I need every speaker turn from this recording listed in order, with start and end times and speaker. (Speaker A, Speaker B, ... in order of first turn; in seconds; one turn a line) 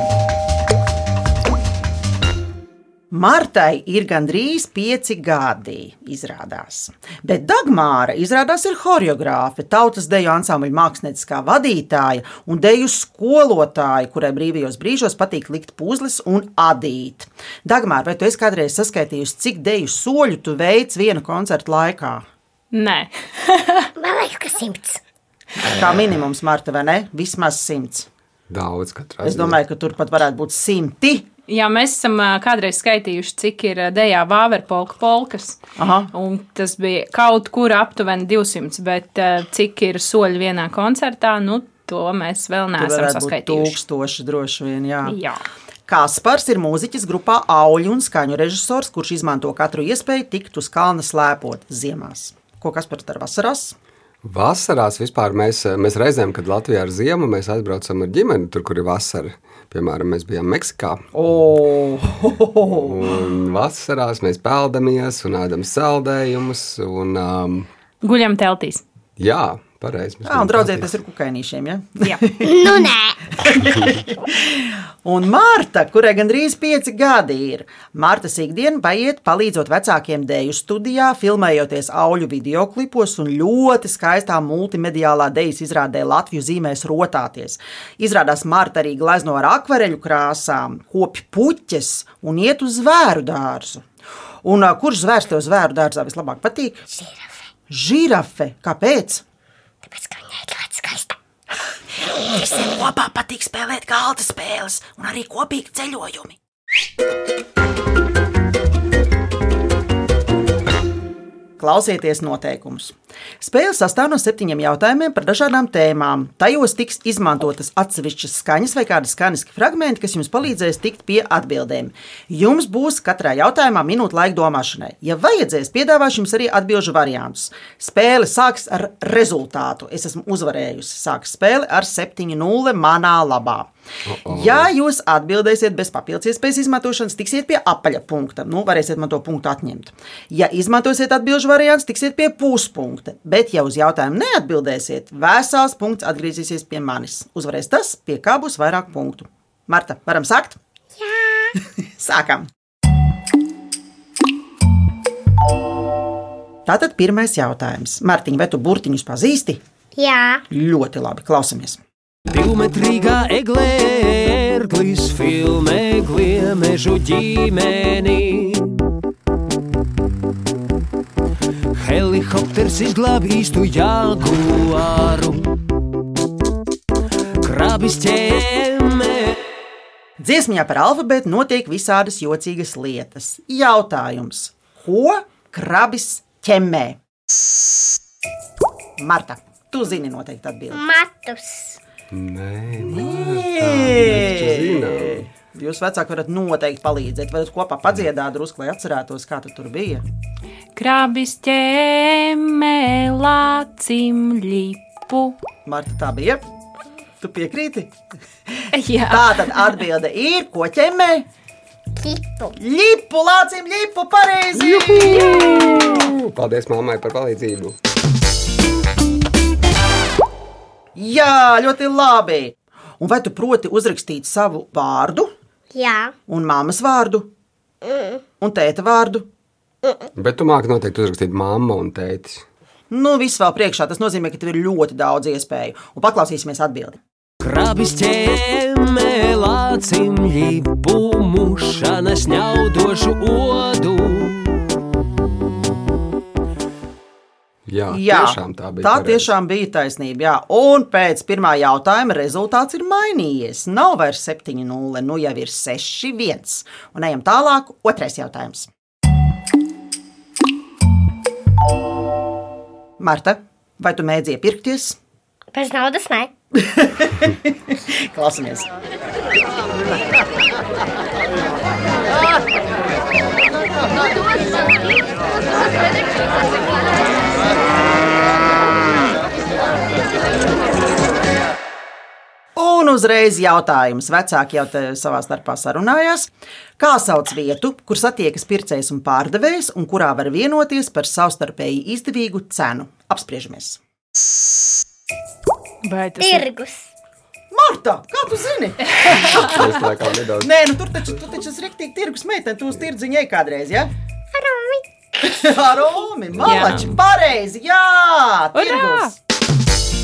Speaker A: 3.1-22.2
Speaker B: 22.7-23.9
Speaker C: 24.0-25.0
Speaker A: 25.6-28.1
Speaker D: 28.5-29.6
Speaker A: 29.2-31.2
Speaker B: 31.5-35.6
Speaker A: 35.8-36.1
Speaker B: 36.1-43.8
Speaker A: 42.8-45.2
Speaker B: 45.0-45.4
Speaker A: 45.9-53.7
Speaker D: 54.2-61.0
Speaker A: 61.1-63.1
Speaker D: 62.7-67.7
Speaker B: 68.0-68.8
Speaker D: 69.2-70.9
Speaker A: 70.2-93.8
Speaker C: 72.4-73.5
Speaker A: 94.4-96.8
Speaker C: 97.0-97.2
Speaker A: 97.7-99.2
Speaker C: 99.8-101.2
Speaker A: 102.0-106.3
Speaker A: 111.6-133.7
Speaker D: 134.1-134.7
Speaker A: 134.3-150.6
Speaker C: 151.0-151.5
Speaker A: 152.0-152.5
Speaker A: 156.7-159.6
Speaker C: 159.9-160.4
Speaker A: 160.5-161.8
Speaker E: 162.3-168.9
Speaker E: 171.8-175.5
Speaker E: 177.4-179.3
Speaker A: 180.2-187.0
Speaker A: 189.0-190.8
Speaker C: 190.7-191.8
Speaker D: 192.1-195.3
Speaker A: 192.8-200.0
Speaker B: 200.8-205.4
Speaker A: 205.7-206.4
Speaker A: 207.2-207.9
Speaker A: 208.5-211.2
Speaker B: 208.7-209.8
Speaker C: 212.0-212.6
Speaker A: 212.6-215.3
Speaker D: 214.6-217.8
Speaker B: 214.9-216.0
Speaker A: 220.9-225.3
Speaker C: 225.7-226.1
Speaker A: 226.3-227.3
Speaker C: 227.8-228.2
Speaker A: 228.4-229.2
Speaker C: 229.8-230.1
Speaker D: 230.1-232.4
Speaker A: 232.9-237.0
Speaker E: 237.4-244.6
Speaker D: 247.7-249.3
Speaker A: 247.9-258.7
Speaker A: 263.0-265.0
Speaker C: 265.5-266.3
Speaker A: 266.5-268.7
Speaker A: 282.5-293.8
Speaker B: 295.8-296.4
Speaker C: 296.2-296.9
Speaker A: 297.5-299.9
Speaker B: 299.0-299.3
Speaker D: 299.1-300.5
Speaker A: 300.4-303.9
Speaker C: 304.3-306.0
Speaker A: 305.2-309.1
Speaker D: 306.3-307.0
Speaker B: 306.4-306.9
Speaker B: 308.5-309.1